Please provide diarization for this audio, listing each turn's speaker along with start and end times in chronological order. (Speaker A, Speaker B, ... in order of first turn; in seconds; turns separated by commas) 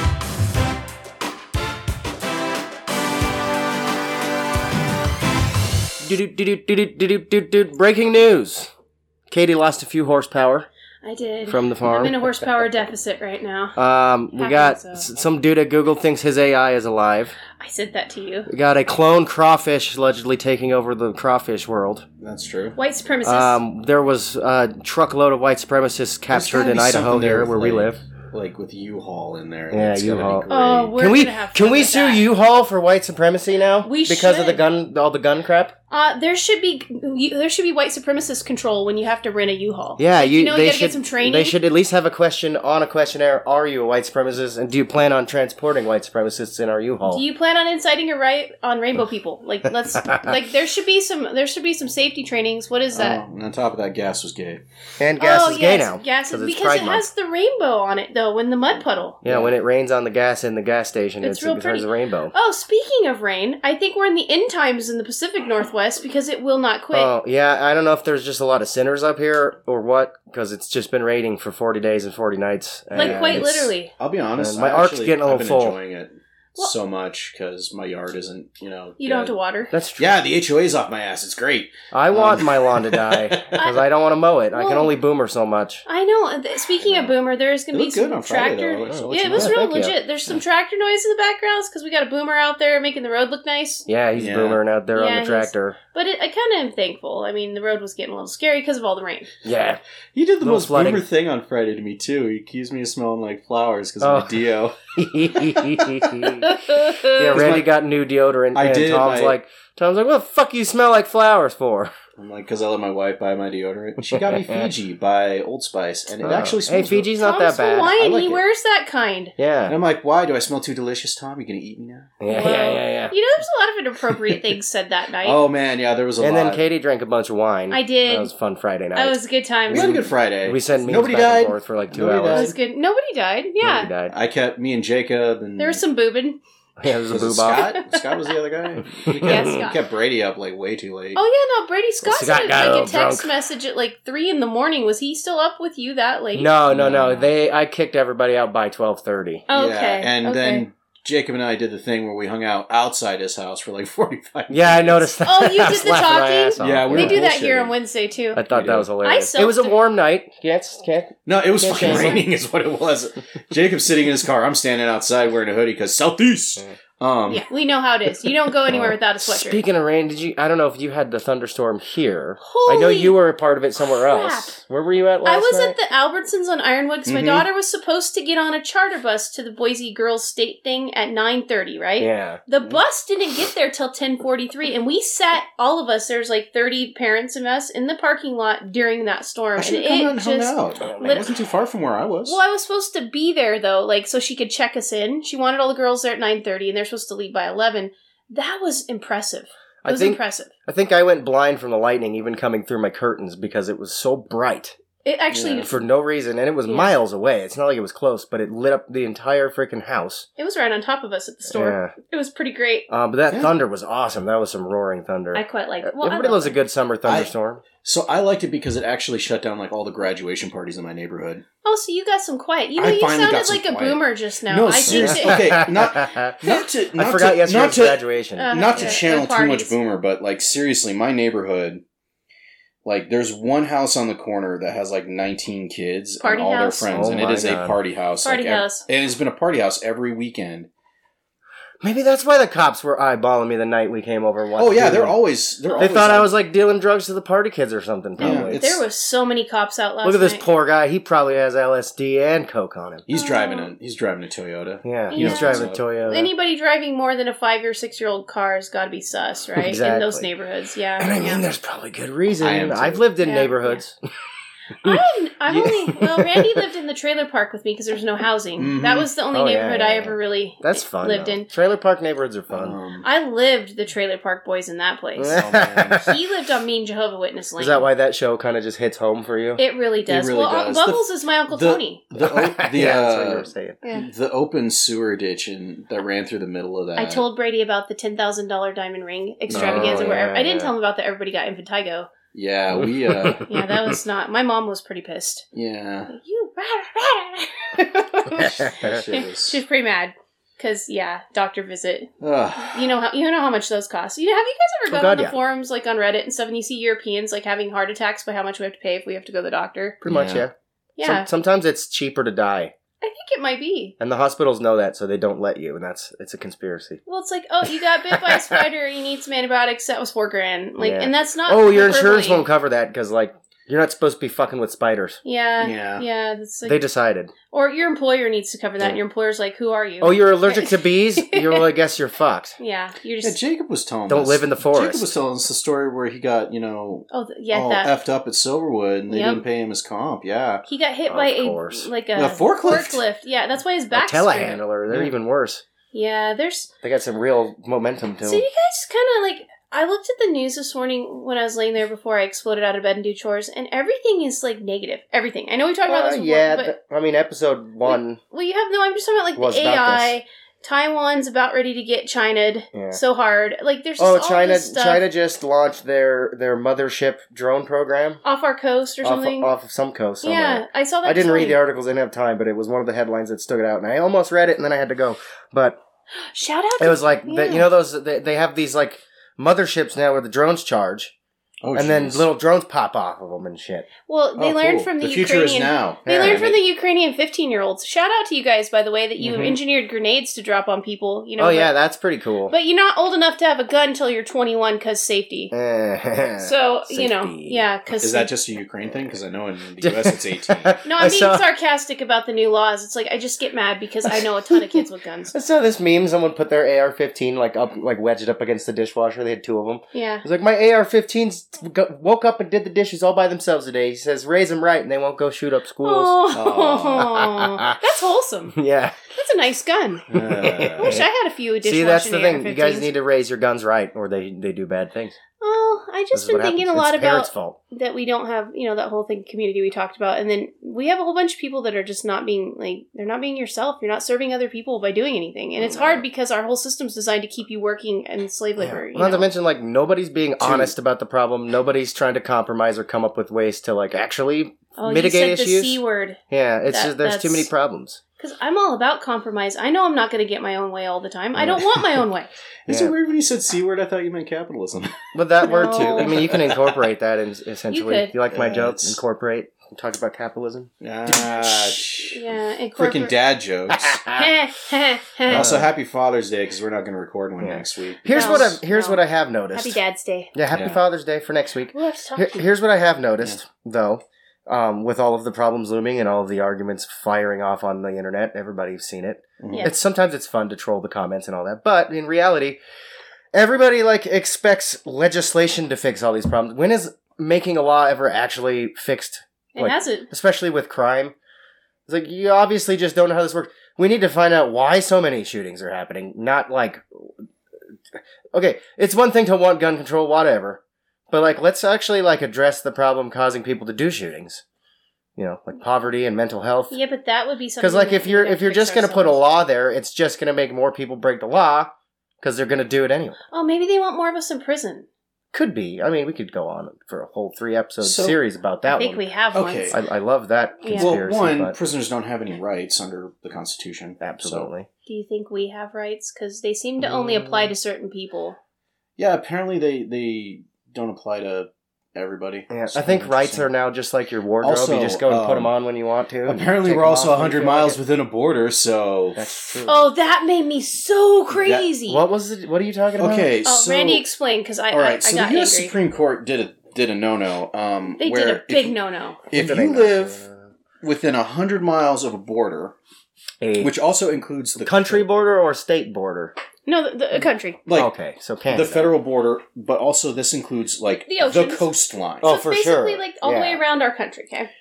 Speaker A: 6.0-8.7, Speaker A: 9.3-10.7, Speaker B: 11.0-13.8, Speaker A: 11.5-12.3, Speaker A: 13.8-17.4, Speaker B: 14.3-15.1, Speaker B: 17.6-18.5, Speaker A: 18.5-22.1, Speaker C: 22.2-22.8, Speaker B: 22.8-23.6, Speaker A: 23.2-28.0, Speaker C: 26.3-30.9, Speaker A: 29.7-35.7, Speaker B: 30.5-32.2, Speaker B: 33.8-34.6, Speaker B: 35.9-41.5, Speaker A: 40.0-47.2, Speaker B: 47.1-53.2, Speaker A: 50.0-50.3, Speaker C: 52.9-54.6, Speaker A: 55.0-57.1, Speaker B: 55.2-59.2, Speaker C: 59.2-59.5, Speaker A: 59.2-62.3, Speaker B: 61.2-67.1, Speaker A: 66.9-73.5, Speaker C: 72.9-79.4, Speaker B: 72.9-73.9, Speaker A: 74.4-75.8, Speaker B: 79.0-79.7, Speaker A: 79.7-80.2, Speaker C: 80.0-83.5, Speaker A: 81.9-85.8, Speaker B: 83.5-83.8, Speaker B: 84.5-84.9, Speaker B: 85.8-93.8, Speaker C: 87.7-89.5, Speaker A: 88.9-90.0, Speaker A: 93.9-95.8, Speaker C: 94.1-94.6, Speaker B: 94.9-99.3, Speaker A: 99.4-99.8, Speaker C: 100.1-104.8, Speaker A: 100.4-101.0, Speaker A: 104.0-104.4, Speaker A: 105.0-111.9, Speaker B: 106.4-107.4, Speaker C: 107.3-107.7, Speaker C: 108.5-109.4, Speaker C: 112.2-117.1, Speaker A: 114.1-114.7, Speaker A: 116.2-118.4, Speaker B: 117.2-119.3, Speaker A: 119.4-119.8, Speaker C: 119.7-122.1, Speaker A: 122.2-123.1, Speaker B: 122.3-125.4, Speaker C: 125.2-126.7, Speaker A: 126.2-129.2, Speaker B: 127.7-128.3, Speaker B: 128.9-130.0, Speaker C: 129.7-132.5, Speaker A: 129.7-132.5, Speaker B: 132.3-133.9, Speaker A: 133.6-134.1, Speaker C: 134.1-135.8, Speaker B: 135.6-136.4, Speaker A: 136.8-137.7, Speaker C: 137.1-141.2, Speaker B: 137.5-138.1, Speaker A: 138.9-139.6, Speaker B: 139.2-139.8, Speaker B: 141.1-146.5, Speaker A: 142.0-143.3, Speaker A: 146.3-149.4, Speaker C: 146.7-147.3, Speaker B: 149.5-150.6, Speaker C: 149.5-155.1, Speaker A: 154.5-157.2, Speaker B: 155.2-158.4, Speaker C: 156.6-157.7, Speaker A: 158.3-162.2, Speaker C: 158.5-158.9, Speaker B: 159.0-159.7, Speaker C: 161.2-167.4, Speaker B: 161.8-162.2, Speaker B: 167.3-169.6, Speaker A: 168.7-175.8, Speaker B: 172.4-173.2, Speaker B: 173.8-174.6, Speaker B: 175.2-191.3, Speaker C: 177.1-177.5, Speaker A: 182.0-182.4, Speaker C: 189.6-192.4, Speaker A: 190.8-191.3, Speaker B: 192.2-200.5, Speaker A: 199.8-204.8, Speaker B: 205.0-205.8, Speaker C: 205.3-205.7, Speaker A: 205.6-210.3, Speaker B: 206.7-206.9, Speaker B: 210.4-212.9, Speaker A: 211.5-211.9, Speaker A: 212.9-217.6, Speaker B: 215.3-216.6, Speaker C: 217.8-221.4, Speaker B: 221.6-225.7, Speaker C: 222.8-231.8, Speaker A: 224.9-226.3, Speaker A: 226.9-228.9, Speaker B: 228.4-229.8, Speaker C: 232.8-240.7, Speaker B: 236.2-237.0, Speaker A: 236.9-237.8, Speaker B: 238.2-238.8, Speaker A: 241.8-245.2, Speaker C: 244.6-246.3, Speaker B: 245.7-245.9, Speaker A: 245.8-248.7, Speaker C: 248.2-248.8, Speaker B: 248.3-250.5, Speaker A: 250.0-253.0, Speaker C: 253.1-255.8, Speaker B: 253.1-253.7, Speaker A: 254.8-256.3, Speaker B: 255.1-261.4, Speaker A: 259.6-260.3, Speaker A: 261.0-264.0, Speaker C: 262.4-263.1, Speaker B: 263.2-263.8, Speaker B: 264.8-271.5, Speaker A: 265.5-266.6, Speaker C: 268.6-269.1, Speaker A: 269.3-272.8, Speaker C: 272.5-273.1, Speaker B: 273.0-275.4, Speaker A: 275.2-276.1, Speaker C: 275.3-276.1, Speaker B: 276.0-277.9, Speaker A: 277.6-279.6, Speaker B: 279.6-282.0, Speaker C: 280.1-287.2, Speaker A: 282.2-283.8, Speaker B: 287.0-292.1, Speaker A: 289.5-290.7, Speaker C: 289.5-290.1, Speaker C: 292.3-293.5, Speaker A: 292.7-293.4, Speaker B: 293.4-295.4, Speaker C: 295.5-296.1, Speaker B: 296.1-310.0, Speaker C: 298.3-299.6, Speaker A: 298.4-299.0, Speaker C: 302.2-302.9, Speaker A: 304.9-305.4, Speaker A: 310.0-312.7, Speaker C: 310.1-310.4, Speaker B: 311.0-311.3, Speaker B: 313.0-313.9, Speaker A: 314.0-317.0, Speaker B: 317.1-322.4, Speaker A: 318.2-318.6, Speaker A: 320.8-325.2, Speaker B: 325.2-326.8, Speaker C: 325.6-326.0, Speaker A: 326.6-327.3, Speaker B: 327.5-331.7, Speaker A: 330.0-332.6, Speaker B: 332.6-333.4, Speaker C: 333.2-340.6, Speaker A: 334.1-335.1, Speaker B: 337.1-337.9, Speaker B: 339.1-339.4, Speaker B: 340.6-344.6, Speaker A: 341.1-341.9, Speaker C: 342.1-343.0, Speaker A: 343.9-345.6, Speaker B: 345.9-346.7, Speaker A: 346.8-348.4, Speaker B: 348.2-356.7, Speaker A: 355.9-358.2, Speaker B: 357.8-365.1, Speaker A: 359.4-360.1, Speaker A: 362.7-363.0, Speaker A: 364.0-368.2, Speaker B: 368.2-369.5, Speaker A: 369.0-375.8, Speaker B: 370.2-371.6, Speaker B: 376.3-377.7, Speaker A: 376.8-381.1, Speaker C: 381.6-382.3, Speaker A: 381.7-383.9, Speaker B: 384.1-391.7, Speaker C: 384.4-386.6, Speaker A: 386.1-386.4, Speaker C: 389.2-389.5, Speaker A: 391.4-392.5, Speaker B: 392.5-395.5, Speaker A: 395.5-397.6, Speaker B: 396.4-398.3, Speaker C: 398.0-400.8, Speaker A: 399.8-401.4, Speaker B: 400.8-405.3, Speaker A: 404.1-416.2, Speaker B: 409.9-410.2, Speaker B: 415.8-418.6, Speaker C: 416.3-417.2, Speaker A: 417.0-417.8, Speaker A: 418.5-419.0, Speaker B: 419.1-422.9, Speaker C: 420.1-421.0, Speaker A: 420.1-421.0, Speaker A: 421.6-425.2, Speaker B: 425.4-439.3, Speaker A: 426.1-427.6, Speaker A: 435.7-436.0, Speaker A: 438.6-445.8, Speaker C: 440.4-440.7, Speaker B: 444.8-447.5, Speaker A: 446.3-448.0, Speaker B: 448.2-452.3, Speaker A: 451.4-451.6, Speaker C: 452.6-454.9, Speaker A: 452.7-452.9, Speaker A: 455.1-461.8, Speaker B: 455.4-456.1, Speaker C: 455.6-456.8, Speaker B: 457.7-458.1, Speaker C: 458.3-459.0, Speaker C: 460.8-462.2, Speaker B: 461.2-463.1, Speaker C: 462.8-464.0, Speaker A: 463.9-464.3, Speaker B: 464.1-465.5, Speaker C: 465.3-468.6, Speaker A: 465.3-465.7, Speaker A: 467.4-469.8, Speaker B: 468.1-470.3, Speaker A: 470.3-482.6, Speaker C: 470.5-470.8, Speaker B: 471.7-472.4, Speaker C: 479.4-479.7, Speaker A: 483.3-491.1, Speaker B: 489.5-490.1, Speaker A: 491.9-497.1, Speaker A: 498.3-504.4, Speaker A: 505.2-506.8, Speaker B: 506.7-509.2, Speaker A: 507.6-513.2, Speaker B: 513.3-514.9, Speaker A: 515.3-519.0, Speaker C: 517.8-518.2, Speaker B: 518.7-519.8, Speaker C: 519.3-519.8, Speaker A: 519.7-521.5, Speaker B: 520.6-520.9, Speaker C: 520.7-524.5, Speaker A: 524.0-524.7, Speaker B: 524.9-528.4, Speaker A: 526.8-527.5, Speaker C: 529.0-533.5, Speaker A: 532.5-537.8, Speaker C: 534.4-535.5, Speaker C: 536.2-539.4, Speaker A: 539.1-539.9, Speaker B: 539.6-542.0, Speaker C: 541.3-541.6, Speaker A: 541.9-543.3, Speaker C: 543.0-544.1, Speaker B: 543.4-545.7, Speaker C: 544.7-548.7, Speaker B: 548.0-549.2, Speaker C: 549.3-550.2, Speaker A: 549.3-550.5, Speaker C: 550.8-552.8, Speaker A: 553.4-553.7, Speaker C: 553.6-555.0, Speaker A: 554.6-556.3, Speaker B: 556.7-557.6, Speaker C: 557.6-557.9, Speaker A: 557.7-558.9, Speaker C: 558.5-562.3, Speaker B: 561.1-561.7, Speaker A: 562.2-563.6, Speaker B: 562.2-564.5